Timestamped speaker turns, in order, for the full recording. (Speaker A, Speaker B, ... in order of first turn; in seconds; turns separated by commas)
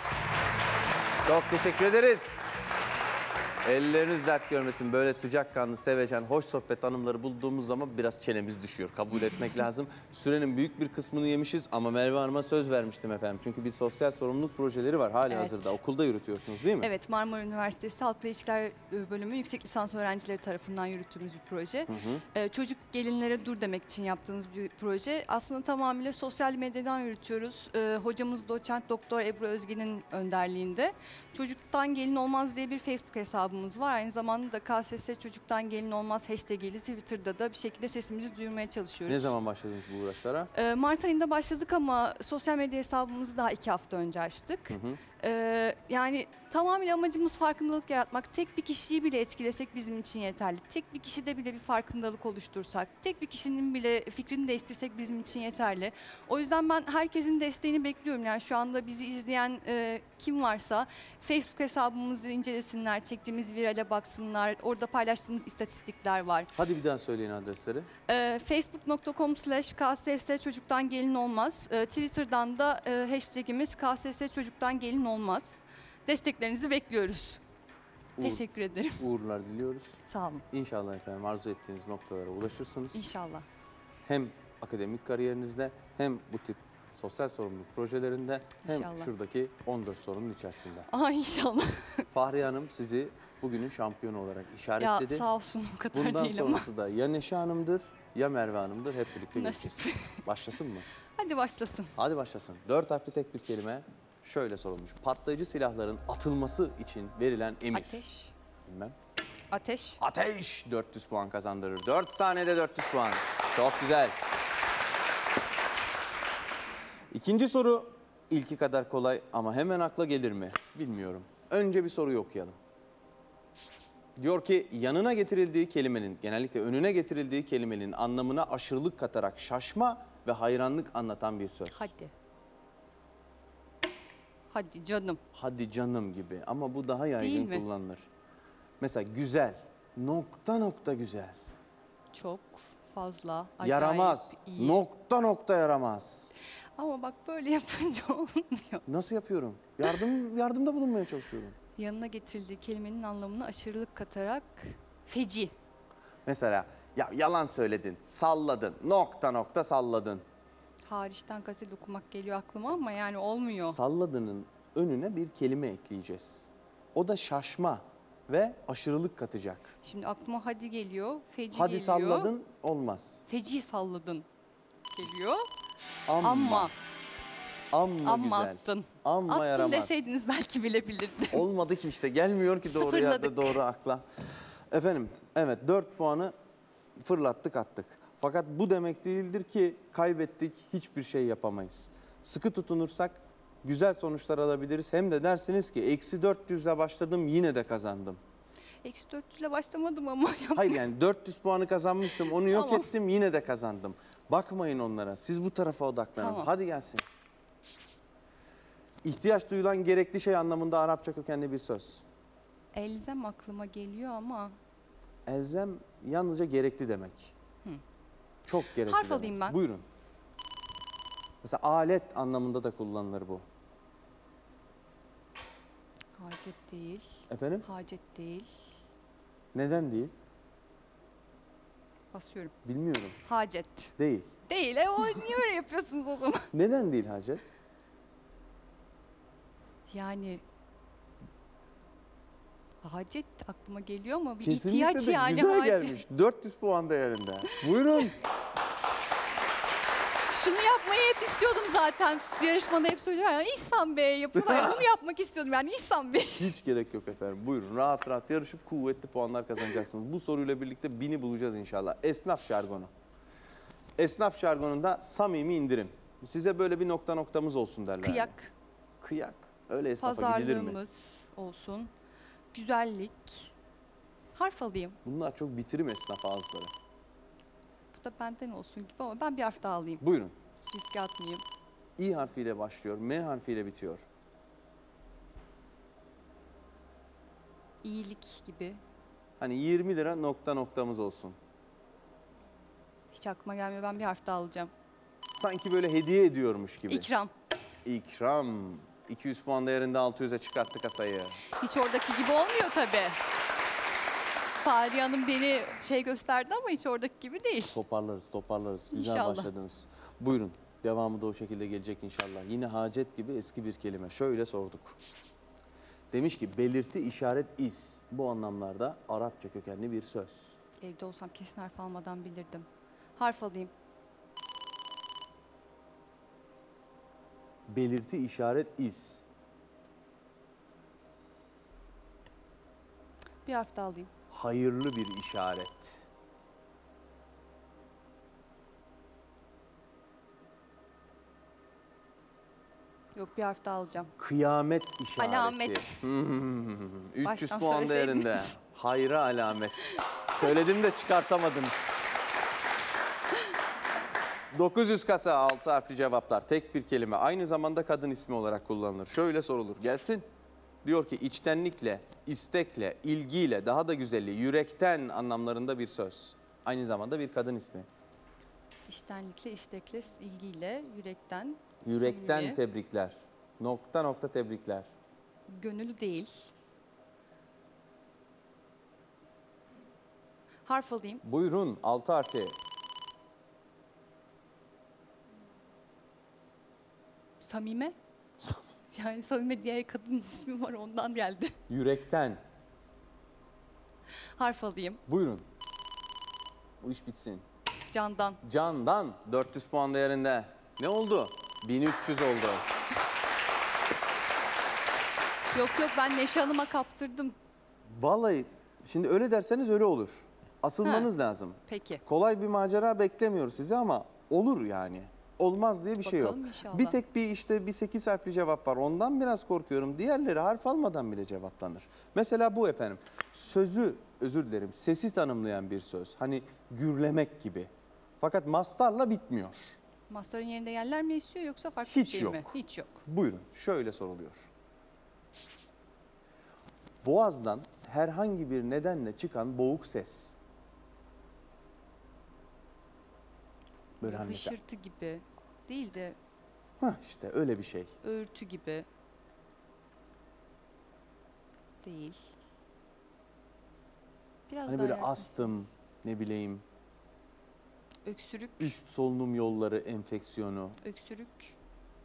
Speaker A: 1.2-2.4, Speaker A: 3.6-16.9, Speaker B: 15.3-15.7, Speaker B: 16.8-39.3, Speaker A: 21.9-22.2, Speaker A: 39.1-40.5, Speaker B: 40.5-66.5, Speaker A: 44.7-45.0, Speaker A: 66.5-67.9, Speaker B: 68.1-77.4, Speaker A: 78.2-80.0, Speaker B: 78.2-79.0, Speaker B: 80.0-80.4, Speaker A: 80.5-83.1, Speaker B: 82.9-83.5, Speaker A: 84.0-90.9, Speaker B: 88.6-89.1, Speaker B: 90.9-92.1, Speaker A: 92.1-95.3, Speaker B: 94.8-96.7, Speaker A: 95.9-100.8, Speaker B: 99.3-100.2, Speaker B: 101.1-101.9, Speaker A: 102.0-108.0, Speaker B: 107.7-108.3, Speaker A: 108.7-108.9, Speaker B: 109.5-110.0, Speaker A: 110.0-114.1, Speaker A: 117.1-122.5, Speaker A: 124.2-131.9, Speaker B: 131.7-132.1, Speaker B: 134.5-135.2, Speaker A: 135.3-138.1, Speaker B: 137.2-137.6, Speaker A: 138.8-141.4, Speaker B: 142.1-144.8, Speaker A: 143.6-146.3, Speaker B: 146.8-148.8, Speaker A: 148.8-151.6, Speaker B: 151.8-155.5, Speaker A: 156.2-160.2, Speaker B: 160.8-163.8, Speaker A: 163.7-169.7, Speaker B: 169.8-172.3, Speaker A: 171.5-173.2, Speaker B: 173.3-174.3, Speaker B: 174.9-175.5, Speaker A: 176.1-176.7, Speaker B: 176.2-176.7, Speaker A: 177.7-180.1, Speaker B: 178.0-181.5, Speaker A: 181.3-186.3, Speaker B: 182.7-183.5, Speaker A: 187.0-198.2, Speaker B: 198.8-200.8, Speaker A: 200.5-207.0, Speaker B: 202.0-202.9, Speaker B: 206.2-206.5, Speaker A: 209.0-212.0, Speaker B: 212.7-214.6, Speaker A: 215.3-217.3, Speaker A: 218.4-219.8, Speaker B: 218.7-219.6, Speaker A: 221.4-223.4, Speaker B: 226.2-228.5, Speaker A: 227.3-227.7, Speaker A: 229.5-230.1, Speaker B: 232.1-232.5, Speaker A: 232.6-233.2, Speaker B: 233.2-233.9, Speaker A: 234.0-234.3, Speaker B: 234.4-236.5, Speaker A: 236.5-237.5, Speaker B: 239.9-240.4, Speaker B: 242.8-246.0, Speaker A: 244.4-248.2, Speaker B: 250.3-256.5, Speaker A: 254.3-254.8, Speaker A: 256.4-262.9, Speaker A: 264.0-268.3, Speaker B: 268.0-268.5, Speaker A: 269.0-270.8, Speaker B: 270.0-271.9, Speaker B: 272.5-273.5, Speaker B: 274.3-275.0, Speaker A: 275.0-276.7, Speaker B: 277.9-280.0, Speaker A: 280.0-280.4, Speaker B: 280.6-281.4, Speaker A: 282.0-284.0, Speaker B: 287.8-288.8, Speaker A: 289.4-291.4, Speaker B: 293.1-294.7, Speaker A: 295.3-297.1, Speaker B: 296.9-297.3, Speaker A: 297.8-301.4, Speaker B: 301.5-303.2, Speaker B: 304.5-307.8, Speaker A: 307.7-315.0, Speaker B: 308.9-309.5, Speaker A: 316.1-320.6, Speaker B: 320.8-323.7, Speaker A: 327.7-329.2, Speaker B: 333.4-334.1, Speaker A: 334.3-336.0, Speaker B: 343.1-344.1, Speaker A: 344.2-352.0, Speaker B: 345.2-345.9, Speaker B: 347.2-348.5, Speaker A: 354.5-360.2, Speaker A: 360.8-367.9, Speaker B: 368.9-372.6, Speaker A: 371.8-374.9, Speaker B: 375.5-376.5, Speaker B: 380.6-381.2, Speaker A: 381.2-382.6, Speaker B: 387.4-387.9, Speaker B: 388.9-391.6, Speaker A: 391.7-392.4, Speaker B: 394.4-395.0, Speaker A: 395.1-395.4, Speaker A: 396.8-397.4, Speaker B: 397.9-398.4, Speaker A: 398.4-402.6, Speaker B: 405.5-407.3, Speaker A: 407.8-429.8, Speaker B: 410.8-411.1, Speaker B: 411.7-412.0, Speaker B: 416.0-417.0, Speaker B: 430.1-433.0, Speaker A: 431.8-434.5, Speaker A: 437.0-440.4, Speaker A: 444.0-444.6, Speaker B: 444.0-446.2, Speaker A: 446.8-447.9, Speaker B: 448.0-448.9, Speaker B: 451.8-452.2, Speaker B: 454.5-455.6, Speaker A: 454.7-456.6, Speaker B: 458.0-458.7, Speaker A: 458.6-460.8, Speaker B: 460.8-461.6